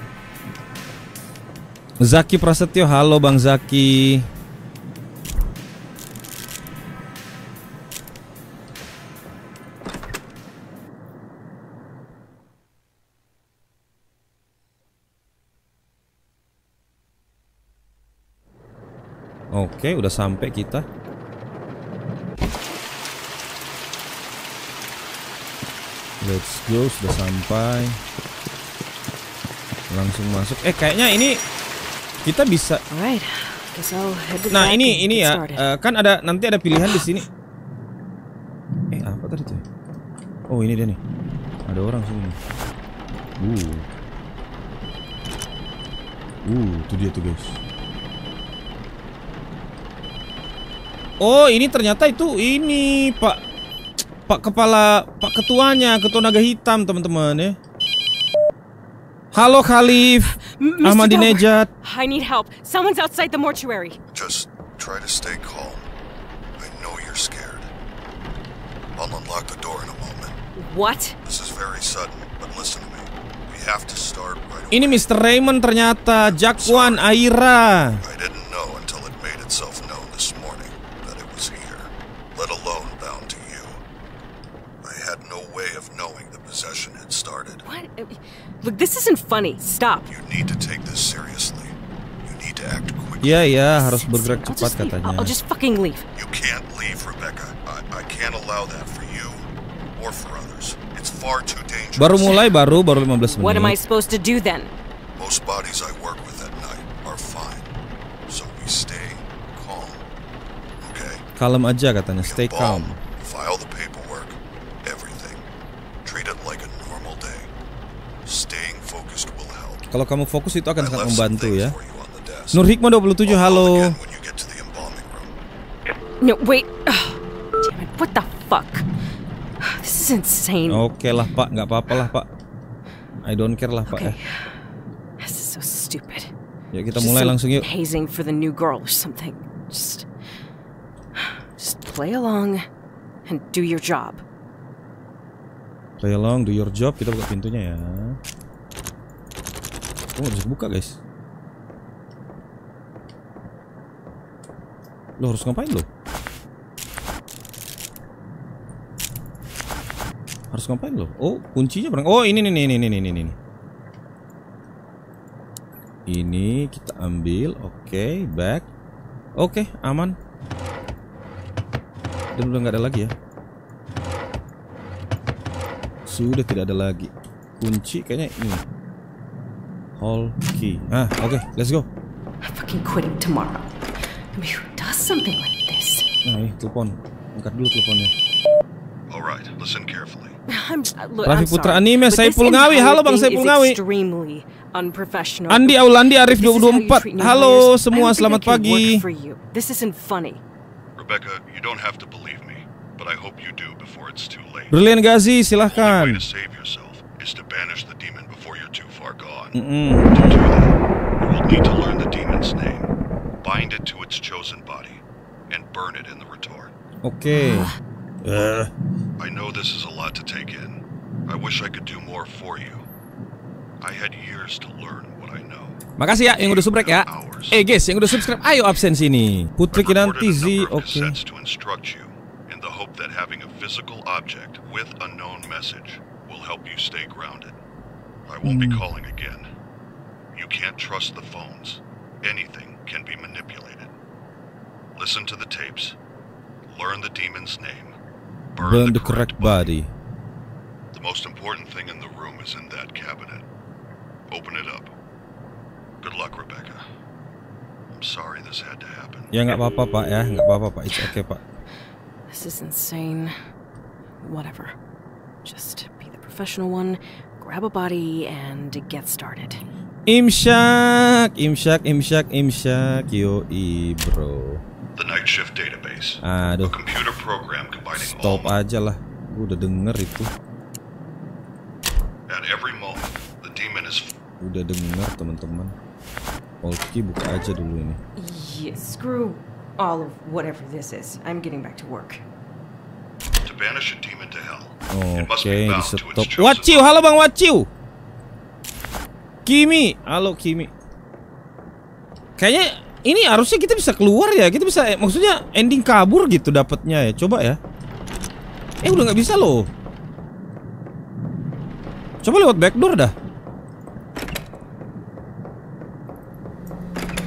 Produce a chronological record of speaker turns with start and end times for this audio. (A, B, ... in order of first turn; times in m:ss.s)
0:02.0-0:04.3 A
0:19.5-0:20.8 A
0:26.2-0:28.0 A
0:29.9-0:31.4 A
0:32.2-0:32.8 A
0:32.9-0:35.7 B
0:34.5-0:37.3 A
0:39.0-0:39.6 A
0:40.5-0:41.0 A
0:41.7-0:42.4 A
0:43.4-0:43.9 A
0:46.4-0:47.6 A
0:51.2-0:53.4 A
0:54.3-0:57.6 A
0:59.3-1:01.7 A
1:00.4-1:04.0 B
1:04.1-1:05.9 C
1:06.6-1:07.7 C
1:09.0-1:10.4 C
1:10.6-1:11.2 B
1:11.2-1:15.1 C
1:14.7-1:18.0 A
1:16.5-1:17.1 C
1:18.0-1:23.8 C
1:24.8-1:27.6 C
1:27.6-1:30.1 B
1:30.1-1:33.5 C
1:33.2-1:35.3 A
1:33.7-1:36.1 B
1:36.2-1:42.4 C
1:42.0-1:43.8 A
1:43.2-1:44.7 B
1:45.2-1:47.7 C
1:48.3-1:50.0 C
1:50.8-1:51.2 C
1:51.4-1:53.0 A
1:52.2-1:55.4 C
1:56.0-1:57.5 C
1:58.2-1:59.9 C
1:59.9-2:01.8 A
2:00.8-2:02.7 C
2:02.5-2:04.0 A
2:03.2-2:05.4 C
2:06.2-2:08.9 B
2:09.6-2:10.8 B
2:10.7-2:12.3 A
2:13.2-2:14.2 A
2:13.9-2:14.6 B
2:15.2-2:16.3 B
2:16.7-2:17.7 A
2:17.0-2:20.1 B
2:21.1-2:22.6 B
2:23.3-2:24.2 B
2:26.0-2:28.2 A
2:30.2-2:31.0 A
2:35.2-2:35.9 A
2:40.5-2:43.4 A
2:46.1-2:48.7 A
2:49.4-2:50.2 A
2:52.4-2:53.1 A
2:56.1-2:58.6 A
3:00.0-3:01.9 A
3:02.4-3:06.1 B
3:06.2-3:08.1 A
3:09.1-3:10.4 C
3:10.5-3:20.4 B
3:11.3-3:13.8 A
3:15.5-3:19.0 A
3:21.0-3:24.8 C
3:24.7-3:26.2 A
3:25.7-3:36.7 C
3:29.6-3:30.4 A
3:37.0-3:37.7 A
3:37.4-3:37.7 B
3:38.2-3:38.7 A
3:39.2-3:42.9 C
3:43.8-3:45.8 C
3:46.0-3:51.2 A
3:46.4-3:47.6 C
3:49.7-3:57.6 C
3:58.3-3:59.5 C
3:58.4-3:58.8 A
4:00.3-4:03.9 C
4:05.0-4:06.0 C
4:06.7-4:08.0 C
4:08.5-4:09.8 C
4:08.6-4:09.9 A
4:10.9-4:13.5 C
4:14.3-4:14.9 C
4:16.0-4:16.8 C
4:17.9-4:19.3 C
4:19.3-4:21.4 A
4:22.3-4:23.3 B
4:24.2-4:24.8 B
4:25.4-4:29.6 B
4:30.1-4:34.6 A
4:34.9-4:38.6 C
4:36.2-4:36.8 A
4:38.0-4:40.3 A
4:42.3-4:44.2 C
4:44.4-4:45.7 A
4:46.6-4:48.0 A
4:48.2-4:52.2 B
4:53.4-4:56.9 C
4:54.9-4:57.7 A
4:59.5-5:00.7 A
5:02.4-5:07.6 A
5:08.8-5:09.7 A
5:12.2-5:13.1 A